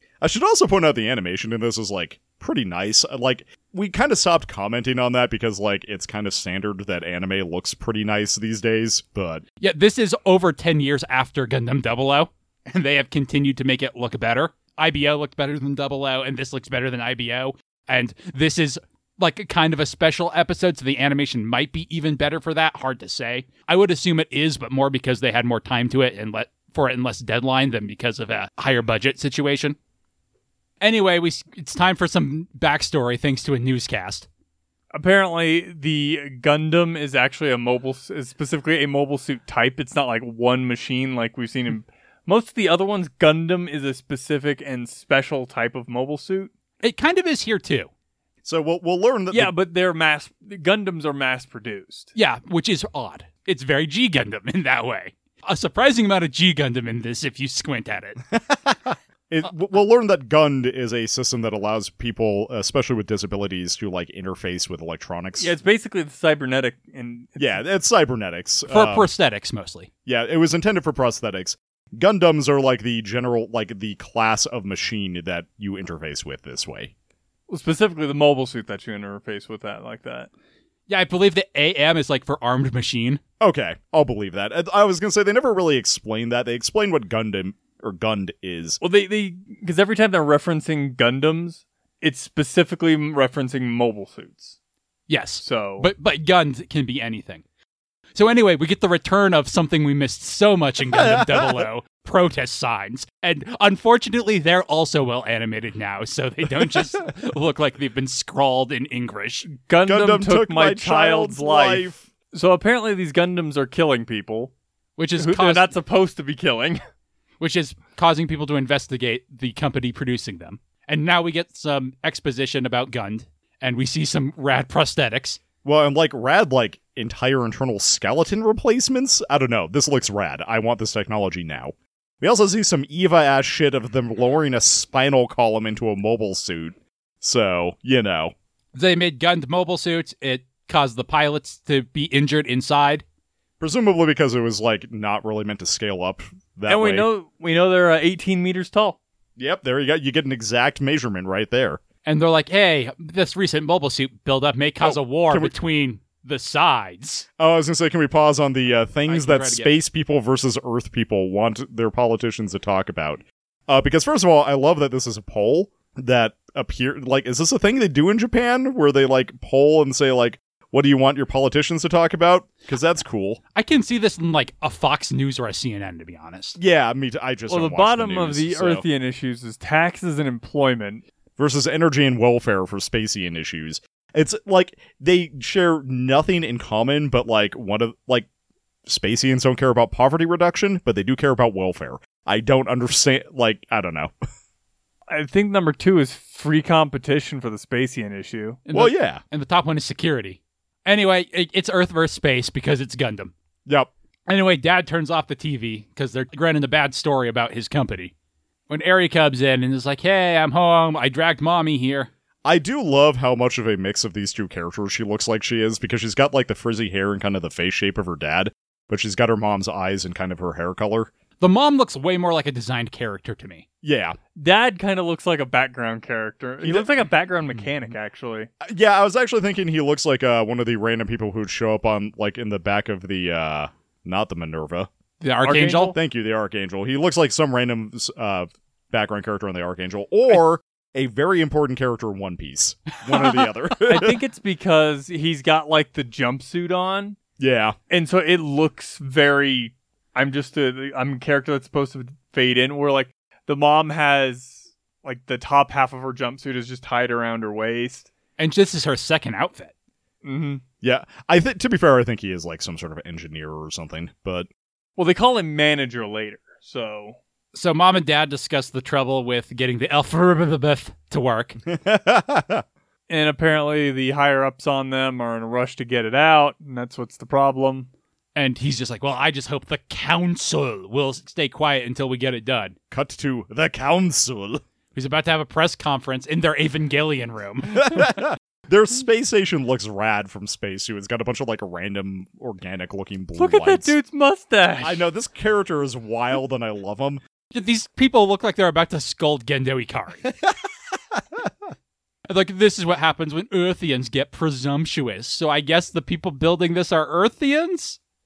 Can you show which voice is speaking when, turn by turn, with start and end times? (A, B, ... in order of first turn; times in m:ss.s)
0:00.2-0:09.4 A
0:09.6-0:29.8 B
0:30.8-0:34.3 B
0:34.9-0:46.5 C
0:46.8-0:47.9 B
0:48.4-0:49.5 A
0:49.3-0:52.1 C
0:52.1-0:58.2 B
0:58.3-1:05.5 A
1:05.4-1:07.6 C
1:07.4-1:09.1 A
1:08.7-1:09.9 B
1:10.0-1:16.9 A
1:17.5-1:20.3 C
1:20.9-1:23.2 B
1:23.4-1:28.8 A
1:28.8-1:34.5 C
1:35.1-1:37.4 B
1:35.4-1:35.9 C
1:38.1-1:49.5 B
1:40.9-1:41.6 A
1:49.5-1:54.5 C
1:49.8-1:52.0 A
1:55.0-1:55.7 B
1:55.2-1:56.8 C
1:57.4-2:05.4 B
2:05.6-2:18.3 A
2:18.7-2:23.0 B
2:23.6-2:27.0 A
2:26.7-2:29.0 C
2:29.4-2:31.8 A
2:32.0-2:37.2 B
2:34.8-2:35.5 A
2:37.4-2:53.4 A
2:39.0-2:39.8 B
2:53.5-2:56.6 B
2:56.6-2:58.8 A
2:57.5-3:01.0 C
3:01.4-3:08.3 A
3:08.8-3:14.1 A
3:15.1-3:18.6 C
3:18.6-3:23.3 B
3:18.7-3:19.2 A
3:23.6-3:23.9 A
3:24.3-3:28.1 B
3:28.7-3:32.1 B
3:32.4-3:41.1 A
3:41.4-3:43.6 B
3:43.8-3:44.2 A
3:44.4-3:48.5 C
3:46.6-3:46.9 A
3:48.6-3:54.9 A
3:55.2-3:55.9 B
3:55.4-3:55.9 C
3:55.7-4:04.2 A
4:03.8-4:07.2 C
4:07.4-4:07.8 A
4:07.9-4:18.1 C
4:18.4-4:19.7 B
4:20.2-4:20.6 C
4:20.8-4:24.5 A
4:25.0-4:27.2 C
4:27.5-4:31.6 B
4:31.7-4:32.6 A
4:33.1-4:37.9 C
4:38.4-4:42.7 B
4:42.9-4:44.6 A
4:44.9-4:48.2 B
4:47.7-4:53.9 A
4:53.4-4:55.0 C
4:54.8-4:57.2 A
4:57.5-5:00.3 B
5:01.1-5:01.5 A
5:02.3-5:08.0 B